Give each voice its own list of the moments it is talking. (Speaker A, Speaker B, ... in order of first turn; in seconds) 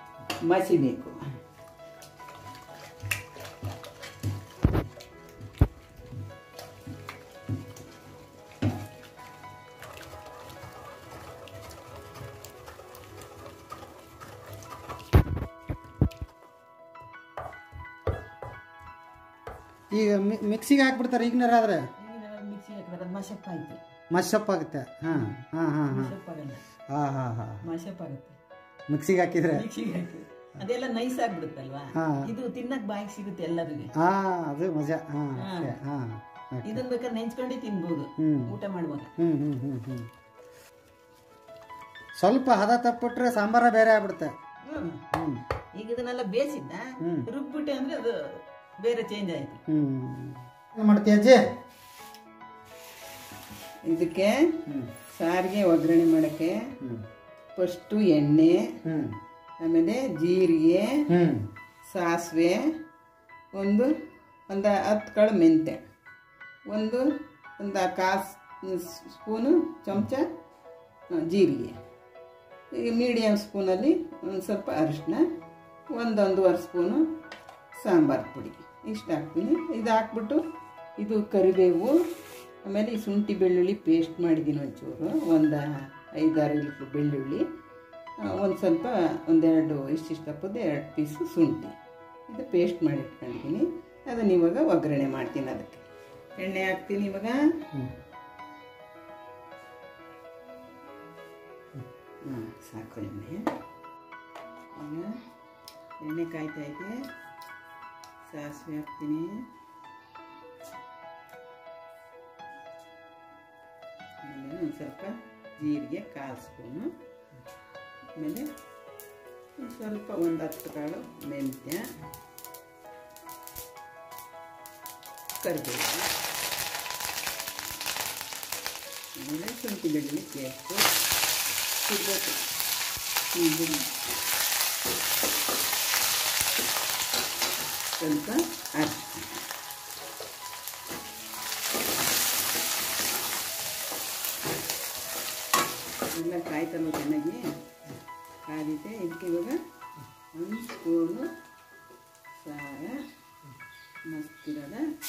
Speaker A: 0.5-1.2, 22.0-23.8, 25.1-26.6, 27.6-28.4, 29.5-33.9, 35.4-35.7, 36.6-39.1, 44.6-45.0, 45.7-49.6, 53.9-54.6, 55.1-56.7, 57.5-58.7, 59.6-61.0, 61.9-62.7, 63.5-63.9, 64.5-65.8, 66.7-67.1, 67.6-70.3, 71.2-71.8, 72.7-75.2, 75.9-77.1, 77.7-80.4, 81.0-81.9, 82.6-87.5, 88.3-91.7, 92.3-95.8, 96.4-97.4, 102.2-103.4, 104.7-105.1, 106.0-107.0, 108.3-109.4, 114.2-116.9, 118.2-118.5, 119.6-121.9, 125.4-126.1, 129.2-130.9, 131.8-132.4, 133.3-133.8, 138.0-139.4, 146.1-147.5, 148.4-149.6, 150.3-151.3, 152.3-153.0, 154.1-154.9
Speaker B: 19.9-21.9, 24.1-26.1, 26.9-27.6, 28.9-29.6, 31.9-32.3, 34.0-36.8, 38.2-38.5, 39.2-40.1, 42.2-44.3, 45.1-45.4, 49.7-51.4, 58.8-59.2, 61.1-61.5